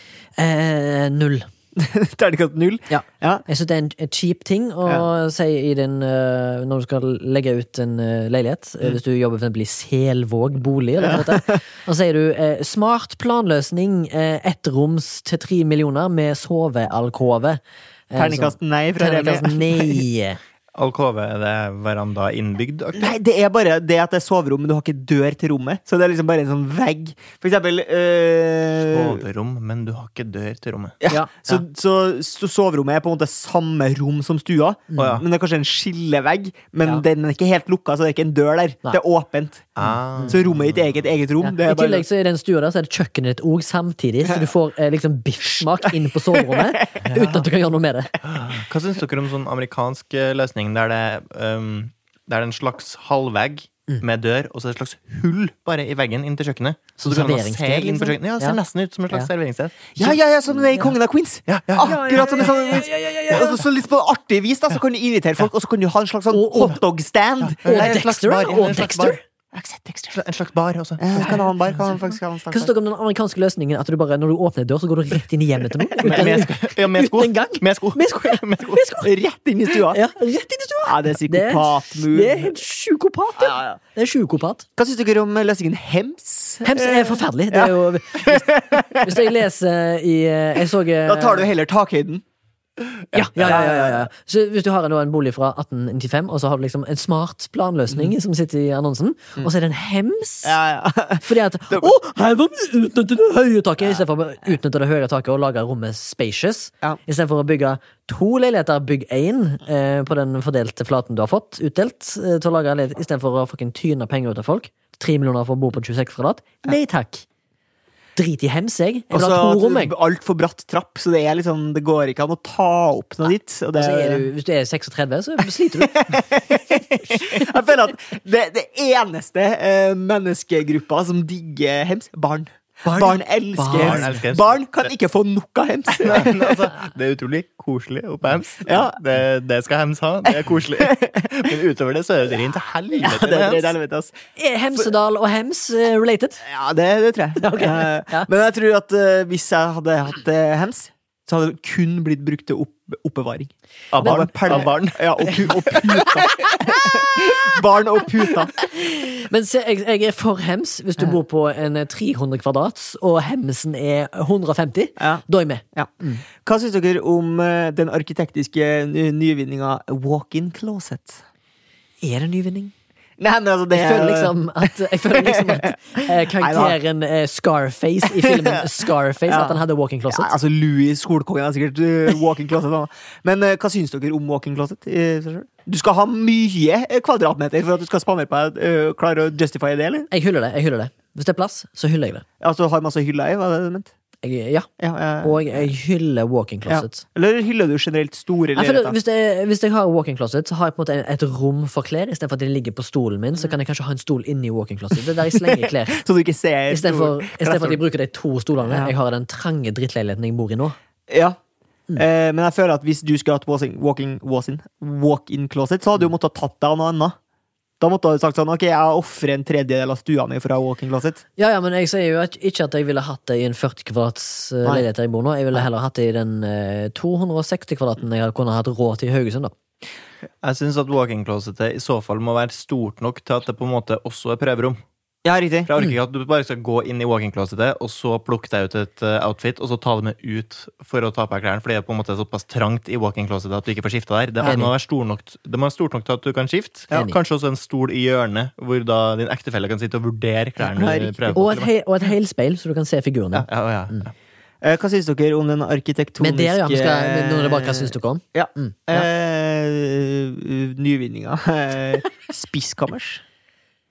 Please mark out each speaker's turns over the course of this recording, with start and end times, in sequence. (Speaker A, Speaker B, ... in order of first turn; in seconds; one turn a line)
Speaker A: 0.4-1.5
Speaker B: 1.8-3.4
Speaker A: 2.9-17.6
Speaker B: 11.0-11.6
Speaker A: 18.1-20.4
Speaker B: 18.2-20.0
Speaker C: 20.7-23.1
Speaker B: 22.9-29.2
Speaker C: 28.9-31.0
Speaker B: 31.0-42.0
Speaker A: 31.1-31.6
Speaker A: 34.9-35.2
Speaker C: 35.0-35.2
Speaker C: 39.8-41.0
Speaker A: 41.4-48.1
Speaker B: 45.8-46.9
Speaker C: 47.0-47.5
Speaker C: 48.2-60.2
Speaker A: 57.0-58.6
Speaker B: 60.0-68.0
Speaker C: 61.5-62.9
Speaker A: 61.8-63.6
Speaker A: 66.3-66.8
Speaker C: 67.4-69.2
Speaker A: 67.6-69.2
Speaker B: 69.5-70.2
Speaker C: 70.1-72.0
Speaker B: 71.0-72.7
Speaker A: 72.5-79.1
Speaker B: 76.0-76.3
Speaker C: 76.0-78.8
Speaker B: 79.0-80.0
Speaker A: 79.9-84.7
Speaker B: 80.8-82.5
Speaker B: 83.4-83.8
Speaker B: 84.8-89.3
Speaker A: 86.6-91.5
Speaker B: 91.1-92.2
Speaker C: 93.1-93.4
Speaker A: 93.1-100.6
Speaker B: 93.4-94.0
Speaker B: 100.4-101.9
Speaker A: 101.2-117.2
Speaker A: 118.2-119.9
Speaker B: 119.1-124.3
Speaker A: 123.8-126.0
Speaker B: 125.6-136.7
Speaker A: 127.1-127.5
Speaker A: 132.8-134.2
Speaker C: 133.7-134.9
Speaker C: 136.0-143.7
Speaker B: 138.6-139.0
Speaker B: 140.8-141.2
Speaker B: 143.0-144.2
Speaker A: 144.4-146.4
Speaker B: 146.4-158.5
Speaker A: 147.4-148.3
Speaker C: 153.9-155.8
Speaker A: 154.0-154.7
Speaker A: 158.6-166.2
Speaker B: 165.0-165.2
Speaker B: 166.4-171.2
Speaker A: 172.0-172.7
Speaker B: 173.2-176.8
Speaker A: 173.7-180.3
Speaker B: 178.1-190.1
Speaker A: 190.1-192.2
Speaker B: 192.4-193.9
Speaker A: 194.2-194.7
Speaker B: 194.8-195.7
Speaker A: 195.2-197.0
Speaker B: 196.7-198.9
Speaker A: 198.6-206.0
Speaker B: 205.2-207.8
Speaker A: 206.7-210.8
Speaker B: 208.7-208.9
Speaker B: 211.1-211.4
Speaker B: 211.9-217.2
Speaker B: 217.8-221.2
Speaker A: 221.4-229.5
Speaker C: 230.4-234.8
Speaker B: 235.2-235.7
Speaker C: 235.7-251.7
Speaker A: 244.4-244.7
Speaker B: 250.7-251.5
Speaker A: 250.8-254.1
Speaker C: 253.3-254.1
Speaker B: 254.6-263.2
Speaker A: 256.2-259.1